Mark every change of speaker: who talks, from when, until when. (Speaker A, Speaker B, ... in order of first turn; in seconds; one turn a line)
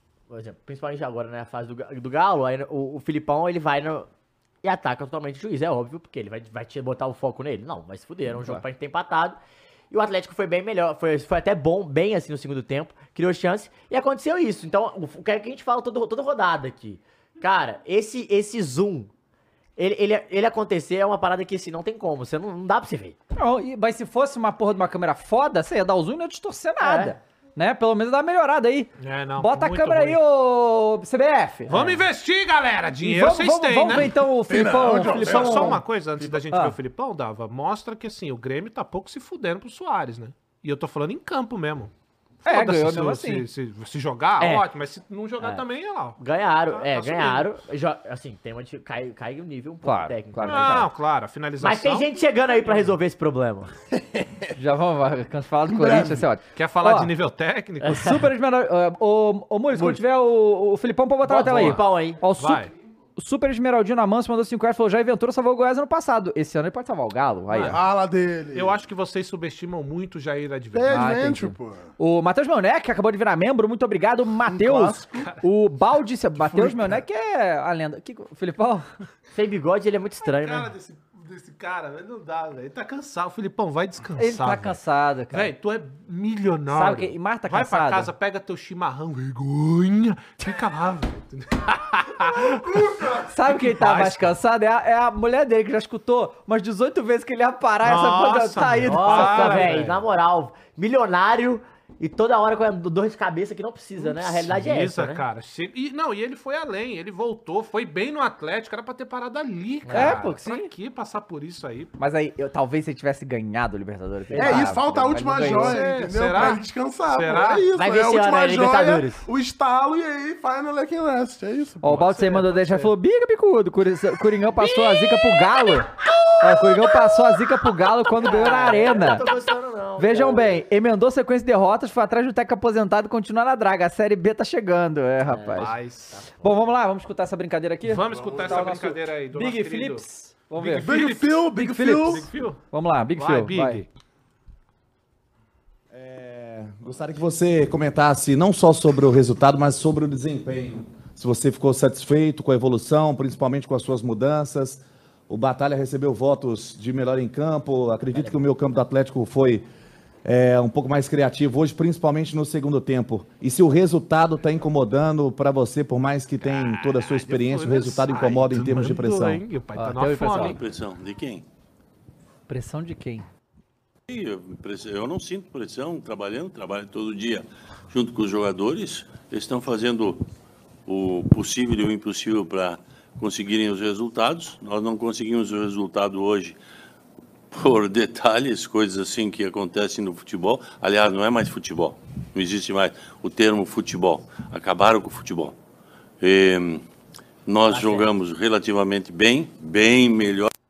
Speaker A: 0.3-4.1
Speaker A: 4.6-9.4
Speaker B: 8.3-8.6
Speaker A: 9.9-19.1
Speaker A: 19.8-23.2
Speaker B: 23.4-31.9
Speaker A: 26.8-27.2
Speaker C: 29.0-30.2
Speaker C: 31.7-34.1
Speaker B: 33.0-35.8
Speaker D: 34.5-35.8
Speaker C: 35.0-41.9
Speaker C: 42.4-47.6
Speaker B: 42.4-43.5
Speaker A: 46.2-50.8
Speaker B: 49.8-50.9
Speaker C: 50.4-52.1
Speaker A: 51.6-53.7
Speaker D: 54.0-54.4
Speaker B: 54.5-57.1
Speaker D: 55.7-56.2
Speaker C: 56.5-58.1
Speaker A: 57.8-58.3
Speaker B: 57.9-67.8
Speaker A: 59.7-60.0
Speaker A: 61.2-62.2
Speaker C: 61.5-61.8
Speaker C: 62.4-62.7
Speaker C: 67.5-67.8
Speaker D: 67.6-68.8
Speaker C: 68.5-71.1
Speaker D: 70.7-71.9
Speaker B: 70.9-78.9
Speaker D: 74.4-75.3
Speaker D: 76.4-77.0
Speaker A: 79.3-80.7
Speaker C: 80.2-84.8
Speaker B: 84.2-85.5
Speaker C: 85.3-94.3
Speaker B: 86.7-88.1
Speaker D: 92.3-93.5
Speaker B: 93.3-99.8
Speaker C: 97.8-100.0
Speaker A: 98.8-105.2
Speaker C: 104.0-111.9
Speaker A: 109.8-110.2
Speaker B: 109.9-110.7
Speaker B: 112.0-115.8
Speaker A: 114.3-114.7
Speaker D: 114.3-122.1
Speaker C: 115.4-117.7
Speaker A: 117.7-119.2
Speaker B: 121.8-129.2
Speaker C: 121.8-122.9
Speaker C: 124.6-125.4
Speaker A: 128.2-130.6
Speaker B: 130.0-135.7
Speaker A: 135.3-136.7
Speaker C: 135.6-136.1
Speaker B: 136.4-140.8
Speaker C: 137.8-140.0
Speaker D: 138.1-138.7
Speaker C: 140.6-142.6
Speaker D: 140.8-142.3
Speaker B: 141.5-143.8
Speaker C: 143.2-143.9
Speaker E: 145.9-159.7
Speaker A: 158.1-158.4
Speaker E: 160.2-169.4
Speaker C: 166.4-170.6
Speaker B: 169.8-170.6
Speaker F: 170.3-171.4
Speaker B: 172.5-173.3
Speaker F: 174.1-180.2
Speaker F: 180.8-186.6
Speaker F: 187.5-195.6
Speaker F: 196.2-196.8
Speaker F: 197.4-200.5
Speaker A: 197.7-198.1